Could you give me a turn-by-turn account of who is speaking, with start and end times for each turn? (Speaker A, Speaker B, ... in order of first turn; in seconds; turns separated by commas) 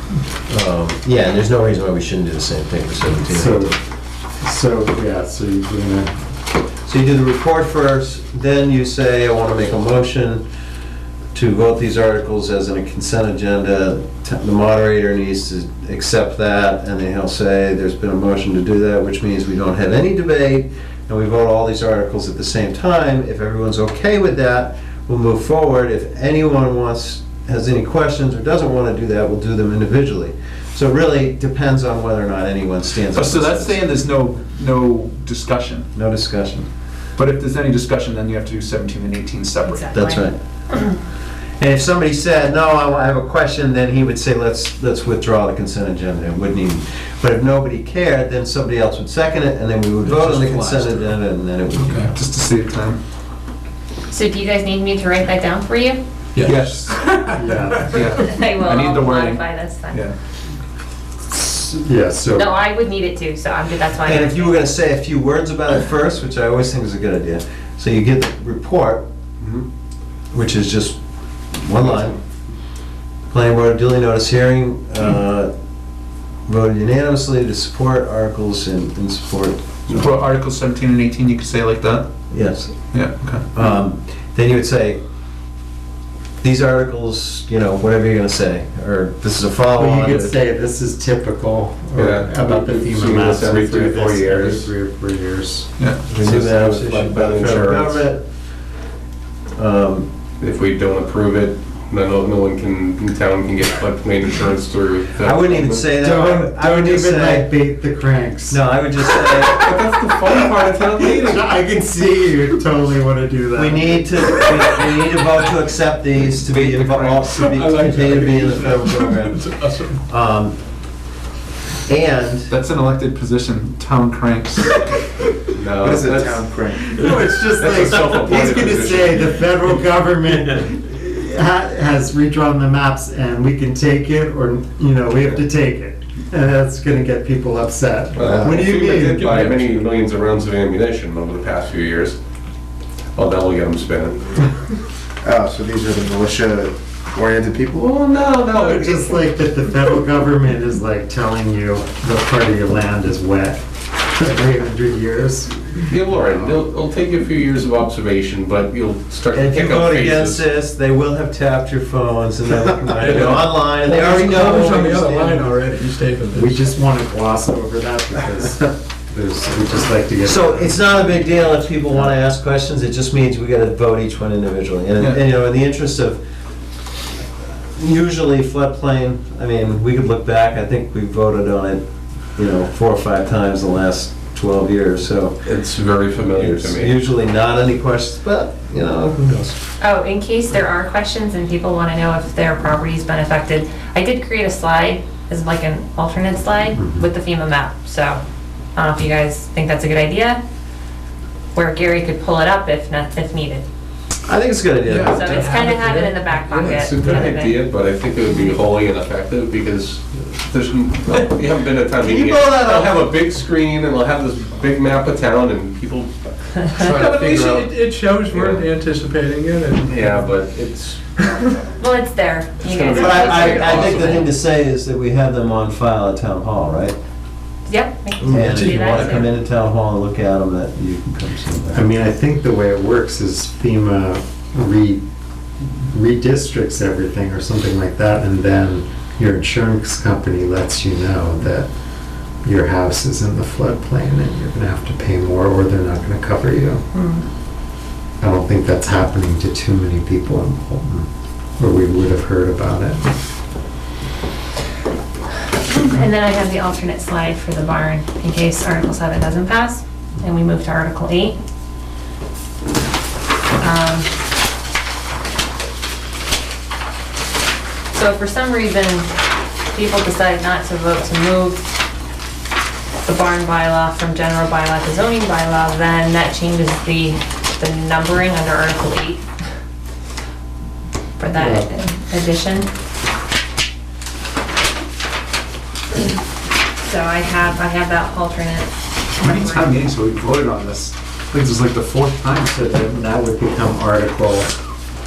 Speaker A: 0.5-3.7, Speaker B: 3.2-3.8, Speaker B: 4.4-6.1, Speaker A: 6.8-10.4, Speaker A: 11.3-33.8, Speaker C: 33.1-35.9, Speaker A: 35.9-36.6, Speaker C: 37.1-39.9, Speaker D: 39.6-41.0, Speaker A: 39.9-40.3, Speaker A: 41.6-52.1, Speaker C: 50.0-51.0, Speaker C: 51.9-53.0, Speaker D: 54.1-56.0, Speaker E: 56.4-57.3, Speaker C: 56.4-60.1, Speaker B: 57.3-58.0, Speaker D: 57.9-60.1, Speaker B: 61.3-62.5, Speaker D: 62.4-64.7, Speaker A: 64.0-69.0, Speaker A: 70.3-71.0, Speaker A: 71.6-72.2, Speaker A: 73.3-75.5, Speaker A: 76.5-80.2, Speaker C: 79.9-82.1, Speaker A: 82.3-82.8, Speaker C: 82.9-83.4, Speaker A: 83.5-85.0, Speaker A: 86.4-90.3, Speaker B: 89.7-95.7, Speaker F: 91.9-94.7, Speaker A: 96.0-98.2, Speaker F: 96.2-98.0, Speaker A: 99.5-100.1, Speaker F: 100.4-105.8, Speaker A: 105.2-107.5, Speaker B: 106.0-108.6, Speaker A: 108.5-109.7, Speaker F: 109.6-111.5, Speaker B: 111.0-114.3, Speaker A: 113.5-119.4, Speaker E: 116.5-120.0, Speaker A: 120.1-120.6, Speaker A: 121.9-122.5, Speaker C: 122.5-124.8, Speaker F: 125.5-129.8, Speaker G: 125.8-127.2, Speaker B: 126.8-139.6, Speaker F: 138.1-142.2, Speaker G: 138.2-138.6, Speaker F: 143.1-144.5, Speaker G: 145.2-147.9, Speaker F: 147.7-149.1, Speaker B: 148.5-156.4, Speaker F: 155.9-160.4, Speaker A: 159.3-165.4, Speaker E: 163.0-166.6, Speaker F: 163.1-163.5, Speaker B: 166.3-170.9, Speaker A: 170.2-176.2, Speaker A: 177.7-185.4, Speaker F: 185.4-187.0, Speaker A: 186.3-189.6, Speaker D: 189.8-198.2, Speaker B: 196.8-197.1, Speaker D: 198.8-200.4, Speaker D: 201.5-203.6, Speaker A: 204.2-205.6, Speaker E: 204.9-207.3, Speaker D: 205.1-207.6, Speaker F: 206.7-218.7, Speaker A: 212.0-213.0, Speaker E: 216.9-220.2, Speaker F: 219.8-221.1, Speaker D: 221.8-224.3, Speaker F: 222.6-224.3, Speaker A: 222.9-226.9, Speaker D: 227.7-229.3, Speaker A: 228.2-231.8, Speaker B: 231.7-235.0, Speaker B: 235.9-241.7, Speaker B: 242.4-246.8, Speaker D: 246.9-247.2, Speaker B: 248.2-251.0, Speaker B: 251.6-253.1, Speaker D: 255.7-261.4, Speaker D: 263.6-264.1, Speaker D: 267.9-269.1, Speaker D: 269.7-271.7, Speaker D: 273.0-279.2, Speaker D: 281.2-282.7, Speaker B: 281.3-281.7, Speaker D: 286.8-289.8, Speaker C: 289.2-292.6, Speaker B: 292.5-294.5